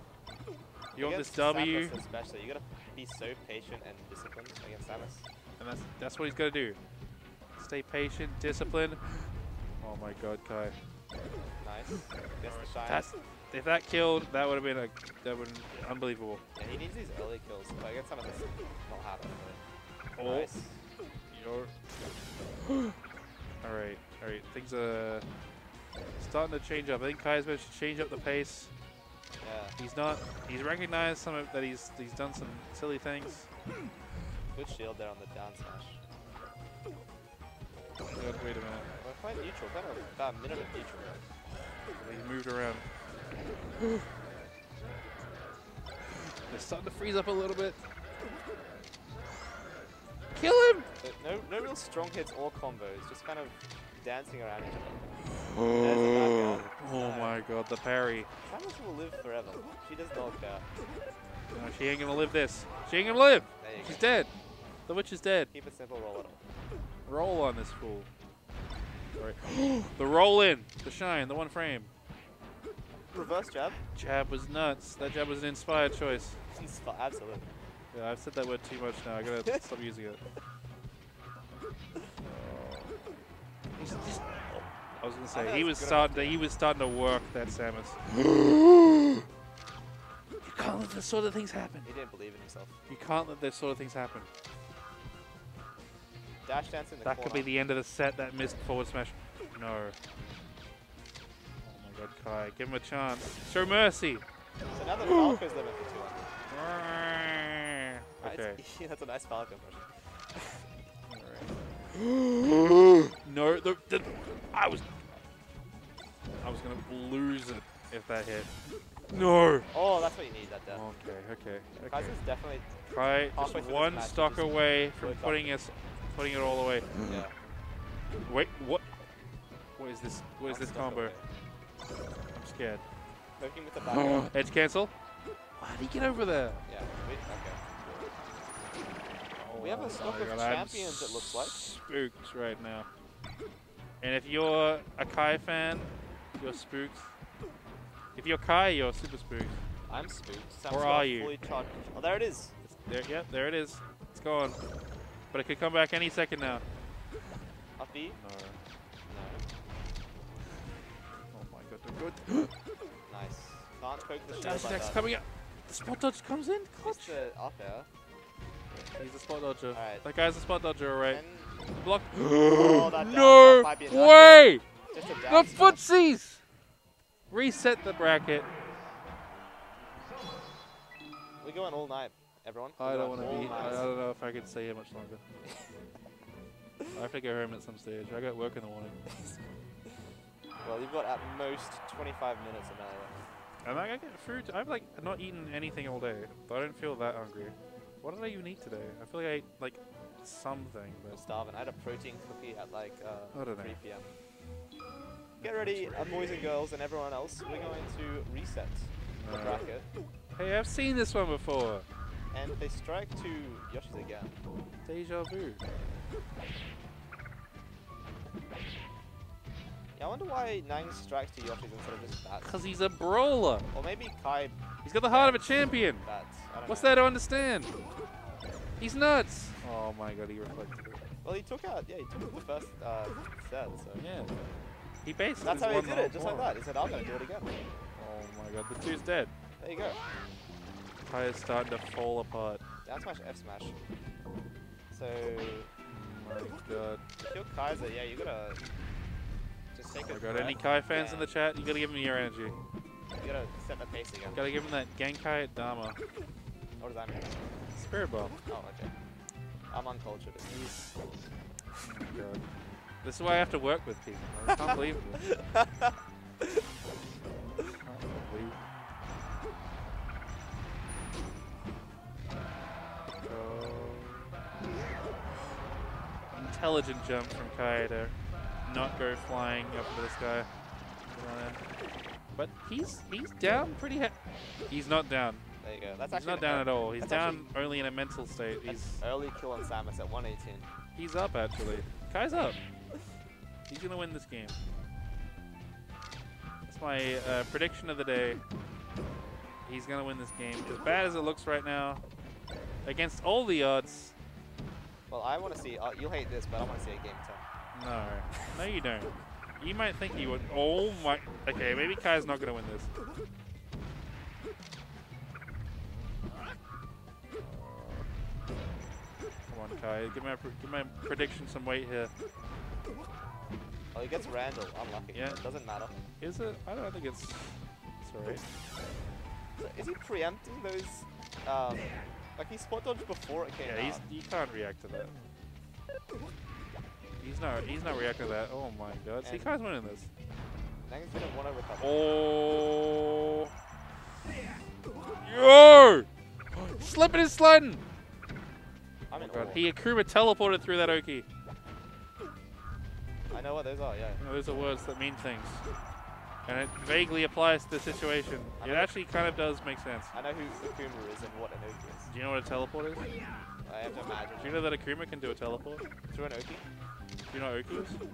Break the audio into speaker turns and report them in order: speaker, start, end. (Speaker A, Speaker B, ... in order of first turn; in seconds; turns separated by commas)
Speaker A: 0.9-2.0, Speaker B: 0.9-5.2, Speaker A: 5.6-6.8, Speaker A: 7.6-10.8, Speaker B: 11.6-13.1, Speaker A: 12.4-16.4, Speaker B: 16.6-19.6, Speaker A: 20.1-20.5, Speaker B: 20.2-20.8, Speaker A: 21.3-21.7, Speaker A: 23.6-25.2, Speaker A: 26.2-28.7, Speaker B: 29.4-29.8, Speaker A: 29.8-33.5, Speaker B: 34.5-36.0, Speaker A: 38.1-38.9, Speaker B: 39.0-41.2, Speaker A: 41.9-42.9, Speaker A: 46.4-47.8, Speaker A: 50.3-50.9, Speaker B: 51.0-55.0, Speaker B: 55.7-57.4, Speaker A: 56.8-58.3, Speaker B: 58.4-60.6, Speaker A: 61.5-64.3, Speaker B: 63.6-64.0, Speaker A: 64.8-65.5, Speaker B: 65.5-66.4, Speaker A: 67.0-68.1, Speaker A: 69.2-71.9, Speaker B: 73.1-73.8, Speaker A: 73.9-76.4, Speaker B: 76.5-77.5, Speaker A: 77.9-80.2, Speaker A: 82.2-83.2, Speaker A: 83.8-88.0, Speaker B: 85.3-86.4, Speaker A: 90.4-91.9, Speaker B: 91.8-92.8, Speaker A: 92.9-94.3, Speaker B: 96.4-97.5, Speaker A: 97.0-100.0, Speaker A: 101.6-104.2, Speaker B: 104.7-106.3, Speaker A: 106.5-108.6, Speaker B: 108.2-110.7, Speaker A: 111.1-111.5, Speaker A: 113.1-114.9, Speaker A: 116.4-118.5, Speaker A: 119.1-119.7, Speaker B: 119.7-120.8, Speaker A: 120.7-122.2, Speaker B: 121.8-122.7, Speaker A: 122.9-127.0, Speaker B: 123.3-125.5, Speaker B: 127.0-127.3, Speaker A: 128.2-128.9, Speaker A: 129.8-131.1, Speaker B: 130.4-131.2, Speaker A: 132.3-132.8, Speaker B: 133.4-134.3, Speaker A: 134.3-134.9, Speaker A: 135.6-136.6, Speaker B: 136.7-138.0, Speaker A: 139.3-142.9, Speaker B: 139.6-141.6, Speaker A: 144.0-147.1, Speaker A: 148.1-149.6, Speaker B: 149.9-152.5, Speaker A: 150.7-151.3, Speaker A: 152.6-154.6, Speaker A: 155.3-156.6, Speaker B: 157.8-158.2, Speaker A: 158.1-158.6, Speaker B: 159.1-159.4, Speaker A: 161.3-162.5, Speaker B: 163.1-165.0, Speaker A: 164.3-167.2, Speaker B: 166.8-167.9, Speaker A: 168.7-171.2, Speaker B: 169.7-170.0, Speaker B: 171.1-171.5, Speaker A: 171.8-174.6, Speaker B: 172.4-175.9, Speaker A: 175.3-176.4, Speaker A: 177.3-178.5, Speaker B: 181.4-183.9, Speaker A: 182.8-185.2, Speaker A: 186.9-189.0, Speaker B: 189.1-189.4, Speaker B: 190.6-193.3, Speaker A: 193.6-201.2, Speaker B: 201.1-204.1, Speaker A: 203.3-203.8, Speaker A: 205.4-206.1, Speaker B: 205.4-209.8, Speaker A: 209.2-209.7, Speaker A: 210.3-211.8, Speaker B: 212.3-214.3, Speaker A: 214.8-215.6, Speaker B: 220.0-222.6, Speaker A: 222.4-223.7, Speaker B: 223.7-227.0, Speaker A: 224.8-226.1, Speaker A: 226.7-227.7, Speaker A: 228.8-231.0, Speaker B: 231.2-234.0, Speaker A: 234.0-234.3, Speaker A: 235.0-236.5, Speaker B: 235.4-237.5, Speaker A: 237.9-239.3, Speaker B: 239.6-240.0, Speaker A: 241.0-242.6, Speaker B: 242.8-243.7, Speaker B: 244.9-245.7, Speaker A: 245.8-247.0, Speaker B: 247.2-248.6, Speaker B: 249.7-251.3, Speaker A: 250.0-252.6, Speaker B: 253.2-254.4, Speaker A: 254.3-256.0, Speaker B: 256.8-257.4, Speaker A: 257.7-258.4, Speaker B: 258.5-258.9, Speaker B: 259.7-260.8, Speaker A: 260.5-260.9, Speaker A: 261.8-262.4, Speaker A: 263.0-265.3, Speaker B: 264.5-265.9, Speaker A: 267.7-268.6, Speaker A: 273.2-274.2, Speaker A: 276.3-278.1, Speaker A: 278.6-280.5, Speaker A: 281.1-281.6, Speaker A: 282.3-284.1, Speaker A: 284.7-285.4, Speaker B: 285.6-287.5, Speaker A: 286.1-289.0, Speaker B: 288.6-290.7, Speaker A: 290.9-292.6, Speaker A: 293.7-294.6, Speaker A: 296.7-298.4, Speaker A: 299.6-302.0, Speaker A: 302.8-304.1, Speaker B: 305.1-307.4, Speaker A: 307.7-312.9, Speaker A: 317.4-318.1, Speaker A: 319.5-322.1, Speaker B: 323.9-325.9, Speaker A: 325.1-325.4, Speaker A: 326.2-328.4, Speaker B: 329.6-334.0, Speaker A: 333.6-335.1, Speaker A: 337.2-340.1, Speaker B: 339.2-339.5, Speaker B: 340.9-342.0, Speaker A: 341.8-343.5, Speaker A: 345.2-347.8, Speaker B: 349.1-349.6, Speaker A: 349.2-351.2, Speaker B: 353.3-354.2, Speaker A: 354.2-355.6, Speaker A: 356.4-360.1, Speaker B: 358.6-358.9, Speaker B: 360.1-362.1, Speaker A: 362.1-363.1, Speaker B: 363.6-364.6, Speaker A: 364.4-365.8, Speaker B: 366.1-366.6, Speaker A: 367.3-368.0